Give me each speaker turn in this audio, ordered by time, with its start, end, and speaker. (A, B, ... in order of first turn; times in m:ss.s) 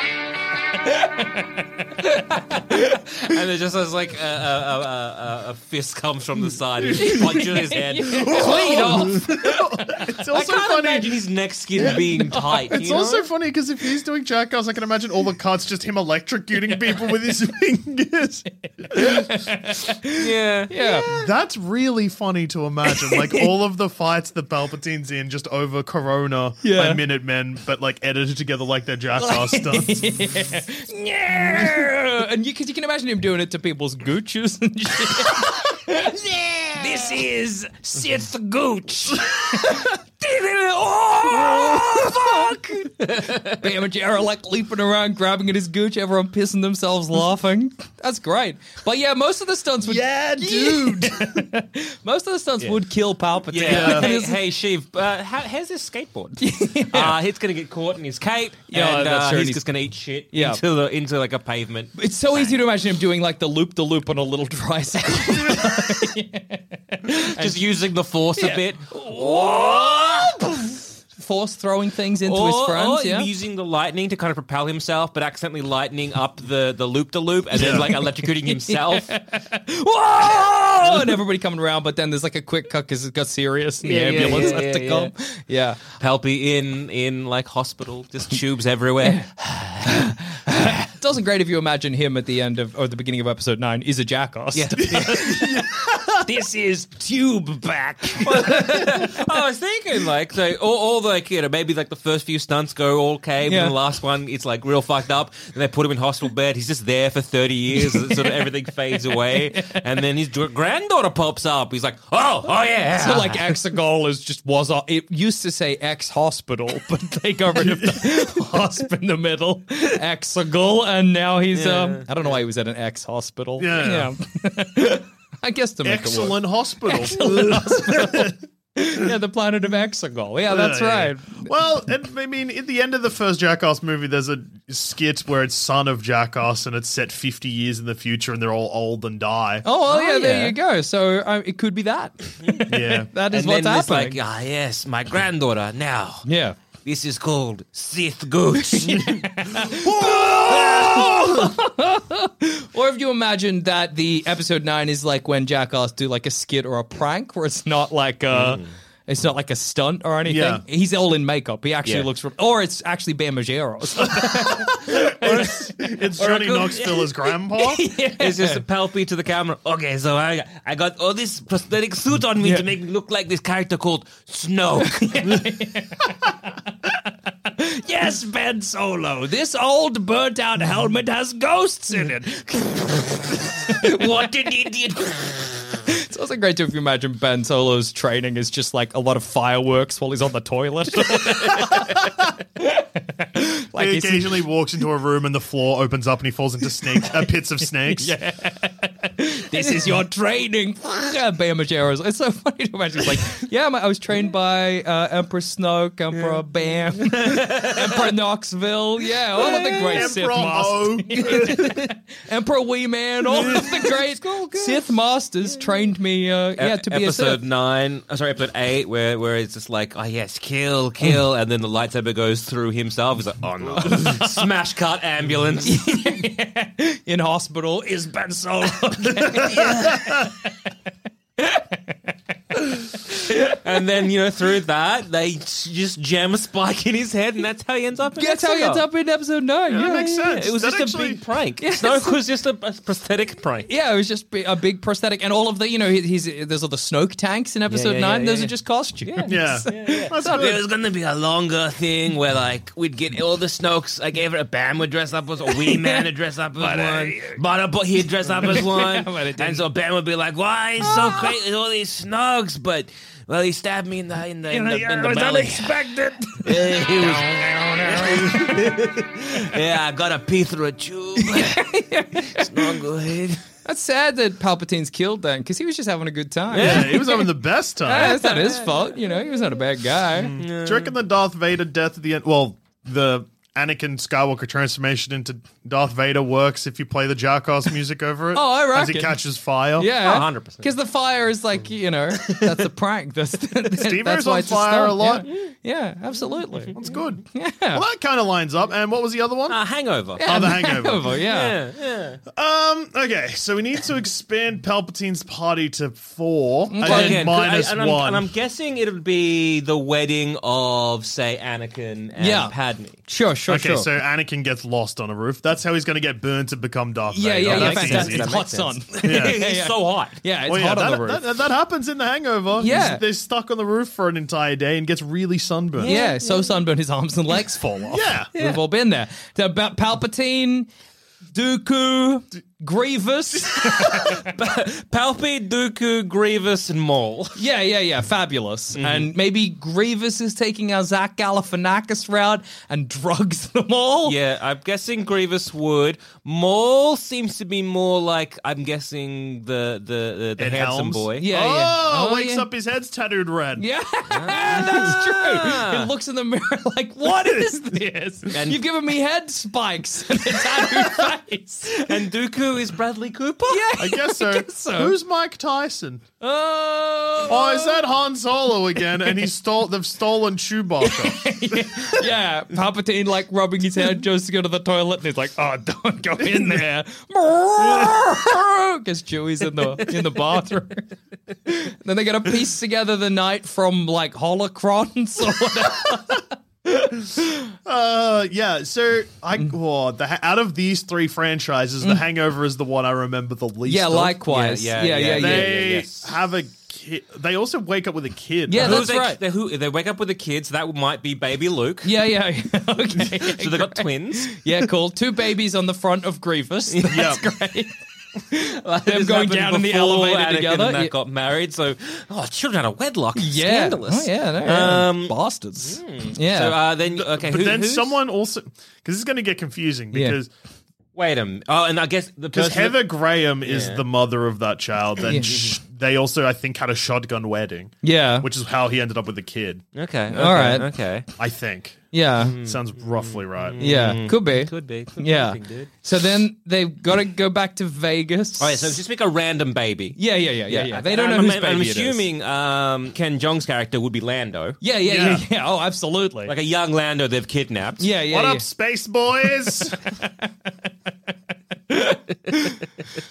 0:00.9-0:03.0 A
0:02.9-0:09.4 B
0:06.9-0:07.2 C
0:06.9-0:10.0 A
0:08.1-0:11.2 C
0:10.3-0:13.3 B
0:12.2-0:12.7 A
0:12.7-0:19.4 C
0:18.9-0:21.1 A
0:20.1-0:20.7 B
0:21.1-0:30.3 C
0:23.0-0:23.4 A
0:26.6-0:27.0 A
0:29.2-0:54.4 A
0:41.3-0:42.2 B
0:43.1-0:43.6 B
0:49.9-0:51.4 C
0:53.5-1:02.6 B
0:53.6-0:54.1 C
0:56.4-0:57.2 A
0:58.7-0:59.6 A
1:00.3-1:00.6 A
1:02.0-1:07.6 A
1:07.4-1:10.4 B
1:08.4-1:13.3 A
1:12.2-1:19.1 B
1:17.5-1:17.9 C
1:17.6-1:25.8 A
1:20.9-1:21.1 B
1:23.8-1:25.1 B
1:24.2-1:24.5 C
1:26.0-1:30.1 B
1:29.0-1:29.3 A
1:29.8-1:39.1 A
1:34.5-1:35.4 B
1:35.0-1:36.0 C
1:38.2-1:53.6 B
1:43.4-1:43.7 A
1:47.8-1:48.4 A
1:49.1-1:49.8 A
1:53.0-2:11.5 A
1:57.6-1:58.2 C
2:01.5-2:02.1 B
2:03.6-2:04.1 C
2:05.8-2:08.4 C
2:10.5-2:19.6 C
2:19.6-2:24.2 A
2:19.9-2:20.5 B
2:22.7-2:23.1 C
2:23.3-2:26.2 B
2:26.2-2:26.6 A
2:26.8-2:29.3 B
2:28.6-2:45.6 A
2:29.7-2:31.2 C
2:38.3-2:38.7 B
2:40.2-2:40.6 C
2:44.2-2:47.8 C
2:46.2-2:47.2 B
2:47.5-2:48.6 A
2:48.2-2:55.4 B
2:52.4-2:52.6 A
2:54.9-3:03.1 A
3:03.2-3:05.8 B
3:05.9-3:12.0 A
3:12.6-3:14.4 A
3:13.8-3:18.1 C
3:17.9-3:37.4 A
3:27.0-3:28.1 B
3:29.4-3:30.2 B
3:29.4-3:31.7 C
3:33.3-3:34.9 B
3:36.6-3:46.2 B
3:43.8-3:44.4 A
3:45.6-3:50.5 A
3:49.3-3:50.1 B
3:51.4-3:51.9 A
3:53.3-3:58.8 B
3:58.2-4:00.1 A
3:59.7-4:01.2 C
3:59.7-4:03.7 B
4:01.6-4:02.2 A
4:03.7-4:10.5 A
4:07.7-4:08.5 B
4:09.0-4:25.7 B
4:09.3-4:10.6 C
4:15.4-4:16.0 A
4:16.6-4:17.4 A
4:18.3-4:19.6 A
4:20.8-4:21.3 A
4:24.5-4:28.8 A
4:26.4-4:31.6 B
4:31.2-4:32.8 A
4:32.2-4:33.4 B
4:33.6-4:37.2 A
4:36.5-4:37.3 B
4:36.5-4:38.2 C
4:37.8-4:40.4 A
4:38.0-4:38.9 B
4:40.2-4:49.9 C
4:40.4-4:40.9 B
4:48.3-4:49.2 A
4:49.8-4:56.8 A
4:50.0-4:50.7 B
4:53.8-4:55.3 C
4:56.8-4:59.6 C
4:57.3-4:57.8 A
4:59.5-5:00.2 B
5:00.2-5:01.6 A
5:00.2-5:01.1 C
5:01.2-5:02.2 B
5:02.3-5:08.2 C
5:06.7-5:07.3 A
5:06.8-5:13.0 B
5:12.2-5:12.5 A
5:13.0-5:13.9 A
5:13.5-5:18.4 C
5:17.1-5:21.2 A
5:17.5-5:20.2 B
5:19.0-5:19.4 C
5:20.4-5:26.0 C
5:22.6-5:23.0 A
5:25.8-5:26.4 B
5:25.8-5:30.7 A
5:27.9-5:28.3 C
5:31.3-5:34.3 A
5:33.8-5:37.4 B
5:37.4-5:44.1 A
5:38.7-5:39.1 B
5:44.0-5:51.2 B
5:50.4-5:53.6 C
5:51.2-5:52.5 A
5:53.6-6:01.8 A
5:54.1-5:55.9 B
5:58.3-5:58.6 B
6:01.7-6:03.7 B
6:03.5-6:04.9 A
6:03.8-6:06.0 C
6:06.2-6:07.8 A
6:07.3-6:12.0 C
6:10.8-6:20.9 A
6:21.4-6:27.4 A
6:27.6-6:34.2 C
6:33.6-6:35.6 A
6:34.3-6:36.1 B
6:35.2-6:38.8 C
6:38.5-6:39.2 A
6:38.6-6:41.9 B
6:41.8-6:47.7 A
6:43.0-6:44.3 B
6:46.9-6:47.2 C
6:48.3-6:50.9 A
6:48.6-6:58.0 B
6:53.2-6:56.6 A
6:57.0-7:00.3 C
6:59.9-7:00.2 A
7:01.0-7:03.8 B
7:02.3-7:09.6 C
7:05.0-7:05.3 A
7:05.2-7:05.6 B
7:07.8-7:08.3 A
7:09.7-7:11.1 B
7:10.1-7:10.7 A
7:11.2-7:13.9 C
7:11.9-7:12.4 A
7:12.2-7:15.7 B
7:13.6-7:18.8 A
7:18.4-7:24.6 B
7:20.0-7:22.0 A
7:24.6-7:26.3 A
7:24.8-7:25.2 C
7:26.2-7:27.8 B
7:27.8-7:28.4 A
7:28.1-7:29.8 C
7:29.6-7:30.3 A
7:31.7-7:32.6 A